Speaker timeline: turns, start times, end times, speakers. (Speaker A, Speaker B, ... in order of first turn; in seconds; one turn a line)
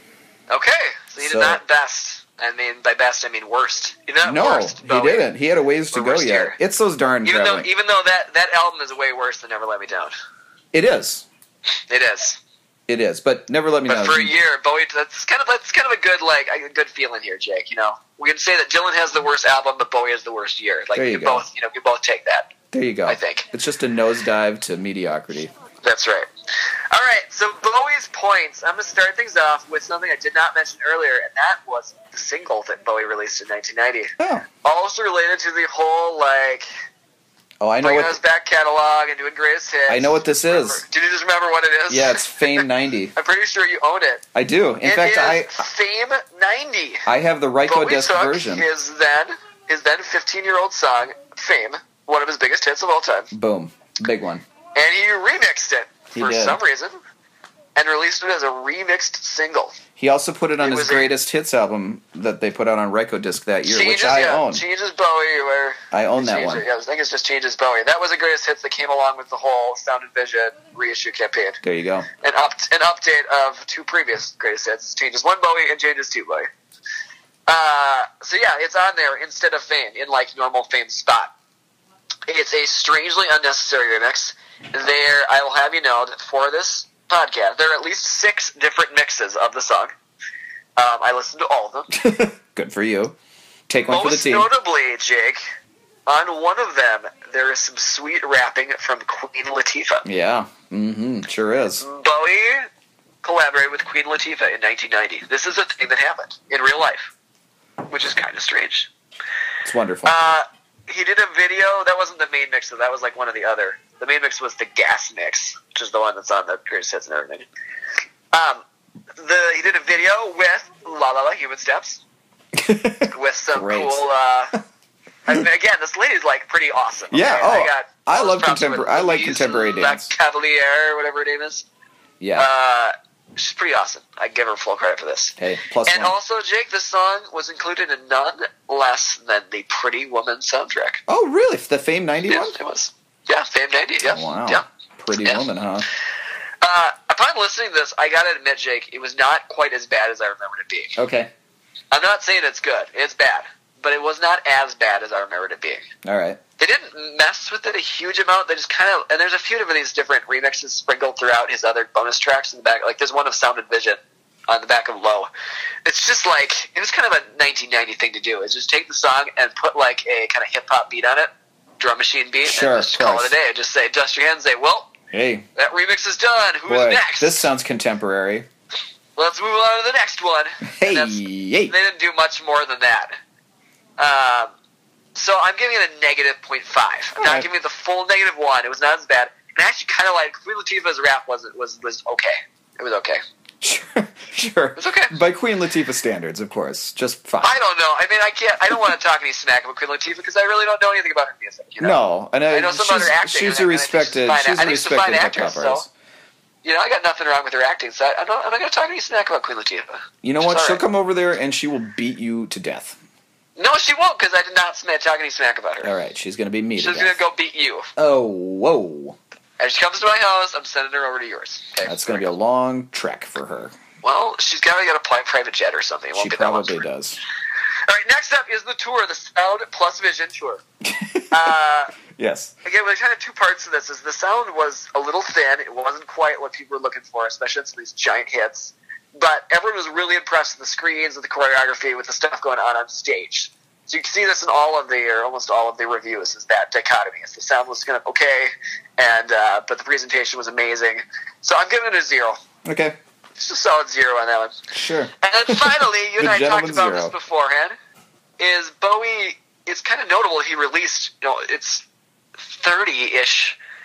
Speaker A: 0.5-5.3
Speaker B: 1.2-1.6
Speaker B: 4.2-7.7
Speaker A: 5.9-6.6
Speaker A: 7.2-10.1
Speaker B: 10.7-11.2
Speaker A: 11.9-12.4
Speaker B: 12.9-14.3
Speaker A: 13.9-22.5
Speaker B: 20.9-21.4
Speaker B: 22.7-25.5
Speaker A: 23.1-23.4
Speaker A: 25.8-26.3
Speaker A: 26.9-36.7
Speaker B: 34.2-34.5
Speaker B: 37.6-38.2
Speaker A: 37.8-42.6
Speaker B: 39.9-40.8
Speaker B: 41.9-43.1
Speaker A: 43.1-44.2
Speaker B: 44.3-45.6
Speaker A: 44.8-47.0
Speaker B: 47.0-48.6
Speaker A: 47.7-53.3
Speaker B: 53.3-54.4
Speaker A: 54.7-57.0
Speaker B: 56.1-56.6
Speaker A: 57.8-59.8
Speaker B: 60.0-64.6
Speaker A: 60.6-61.1
Speaker A: 63.6-71.6
Speaker B: 65.9-66.7
Speaker B: 71.6-72.1
Speaker A: 72.2-76.5
Speaker A: 77.5-81.3
Speaker A: 82.3-89.9
Speaker A: 90.8-91.9
Speaker B: 91.9-93.1
Speaker B: 93.7-94.5
Speaker A: 93.9-95.4
Speaker A: 96.0-100.0
Speaker B: 100.0-101.8
Speaker A: 101.8-102.7
Speaker A: 103.2-107.1
Speaker A: 107.9-108.9
Speaker B: 109.6-110.1
Speaker A: 110.0-117.5
Speaker A: 118.3-118.6
Speaker A: 119.2-122.0
Speaker B: 122.5-124.0
Speaker A: 123.1-124.5
Speaker A: 125.3-131.6
Speaker B: 127.1-130.1
Speaker B: 132.2-132.5
Speaker A: 132.4-135.3
Speaker B: 135.4-136.1
Speaker A: 135.9-141.0
Speaker B: 141.1-142.5
Speaker A: 142.3-144.6
Speaker B: 144.0-145.9
Speaker A: 146.6-151.0
Speaker B: 150.9-151.3
Speaker A: 151.9-155.8
Speaker B: 156.0-156.4
Speaker A: 156.6-165.3
Speaker A: 165.8-174.9
Speaker B: 172.4-173.3
Speaker B: 175.1-175.5
Speaker A: 175.6-177.4
Speaker B: 176.7-178.5
Speaker A: 179.2-183.1
Speaker B: 180.7-181.7
Speaker A: 184.0-184.5
Speaker A: 185.1-193.2
Speaker B: 187.2-187.5
Speaker B: 193.6-197.6
Speaker A: 194.8-195.1
Speaker A: 197.4-202.0
Speaker B: 201.8-205.9
Speaker A: 202.5-205.8
Speaker A: 206.6-210.8
Speaker B: 210.2-213.0
Speaker A: 213.6-215.9
Speaker B: 215.8-217.2
Speaker A: 216.8-217.9
Speaker B: 217.9-219.2
Speaker A: 219.6-222.3
Speaker B: 221.8-223.8
Speaker A: 224.0-226.8
Speaker B: 226.1-227.2
Speaker A: 227.9-230.6
Speaker B: 230.8-231.3
Speaker A: 231.3-231.9
Speaker B: 232.1-232.5
Speaker A: 232.6-252.4
Speaker B: 252.6-252.9
Speaker A: 253.4-254.6
Speaker B: 254.7-257.1
Speaker A: 255.2-257.8
Speaker A: 258.4-261.8
Speaker A: 262.4-263.6